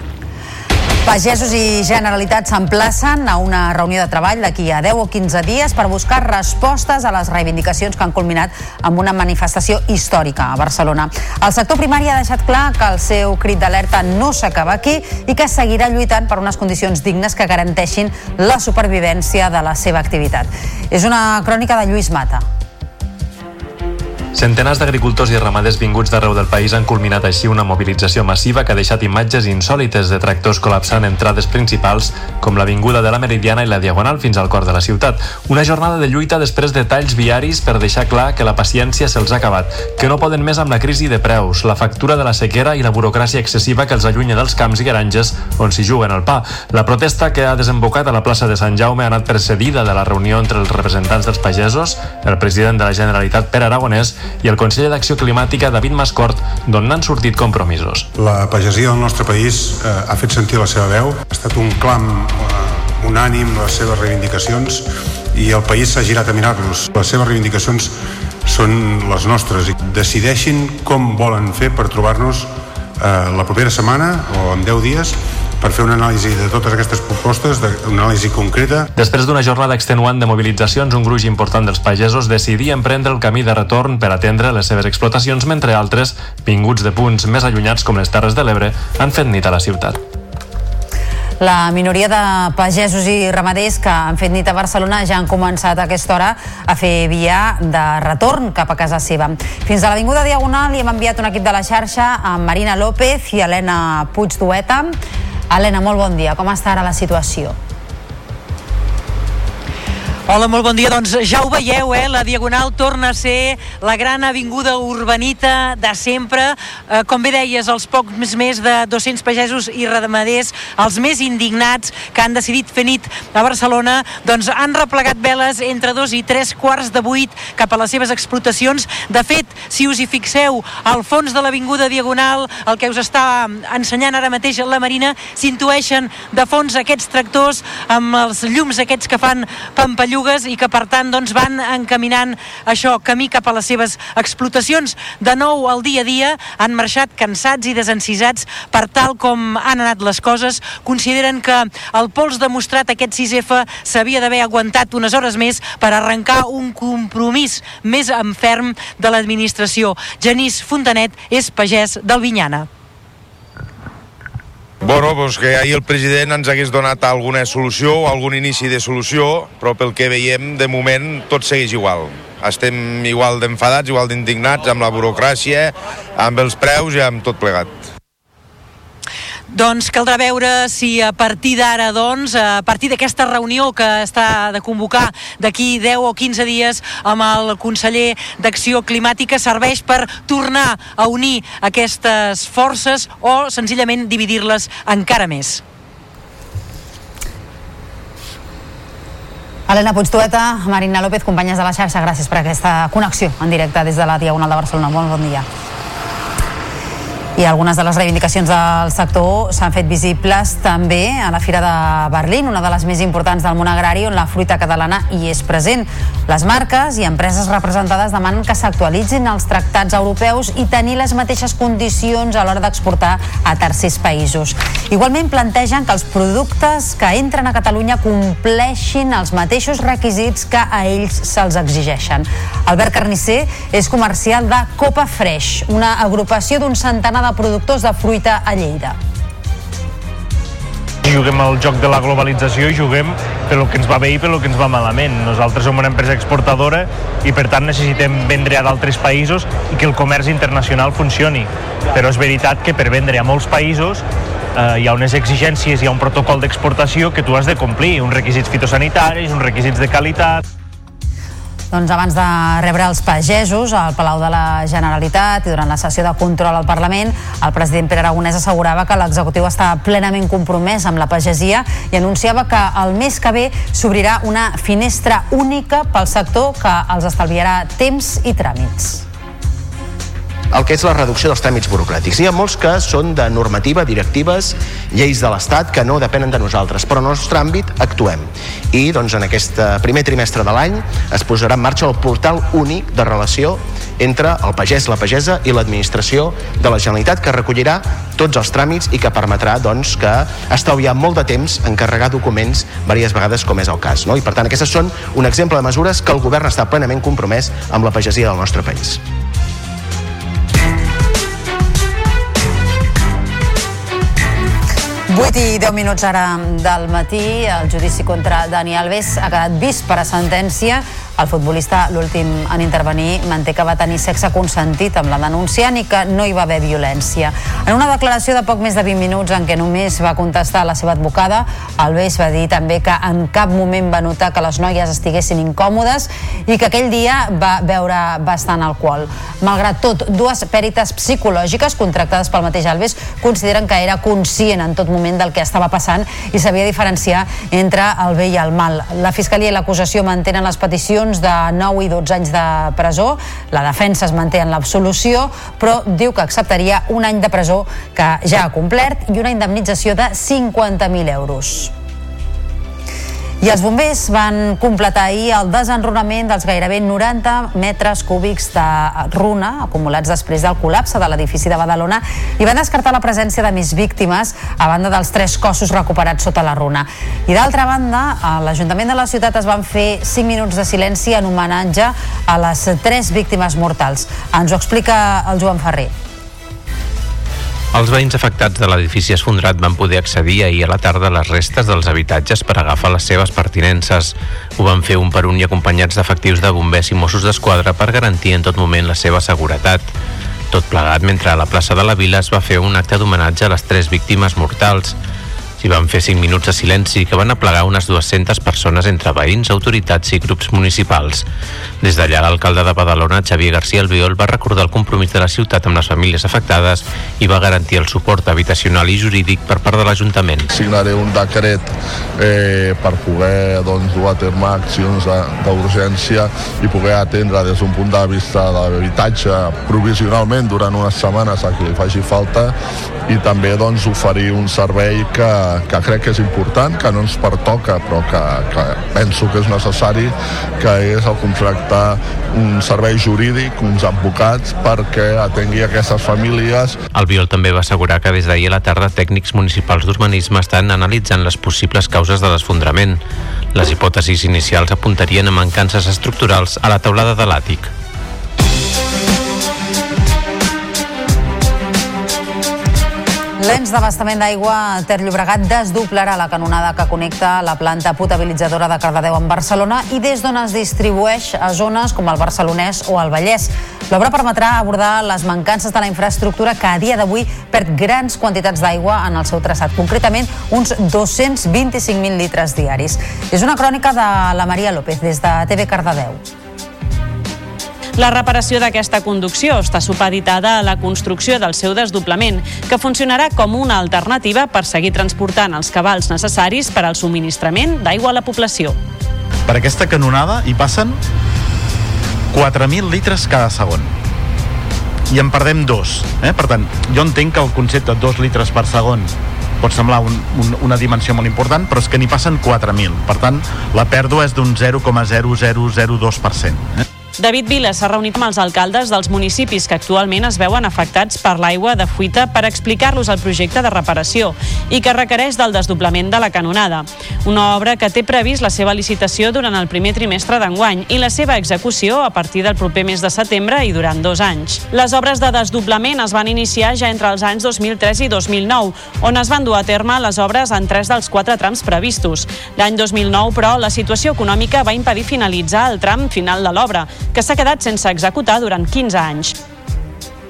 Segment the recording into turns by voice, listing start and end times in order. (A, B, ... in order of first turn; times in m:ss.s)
0:01.0-0:22.4 A
0:24.3-0:58.1 B
0:58.2-1:18.9 C
1:18.9-1:30.0 B
1:31.4-1:44.9 A
1:45.5-1:47.6 A
1:50.3-2:42.7 D
2:44.8-2:57.7 E
2:59.5-3:15.6 D
3:19.7-3:25.4 A
3:27.4-3:59.0 A
4:01.0-4:14.0 F
4:14.5-4:20.4 F
4:21.7-4:39.0 A
4:40.5-5:09.0 G
5:15.1-6:01.7 A
6:03.4-6:25.9 A
6:27.7-6:39.9 H
6:40.5-6:45.0 H
6:45.6-6:51.3 H
6:51.8-7:00.5 H
7:00.5-7:12.5 I
7:13.1-7:26.8 I
7:26.9-7:33.0 H
7:33.5-7:37.7 H
7:43.4-8:06.2 A
8:08.0-8:18.8 J
8:19.5-8:21.0 K
8:22.3-8:23.9 K
8:25.1-8:36.8 K
8:37.2-9:09.4 J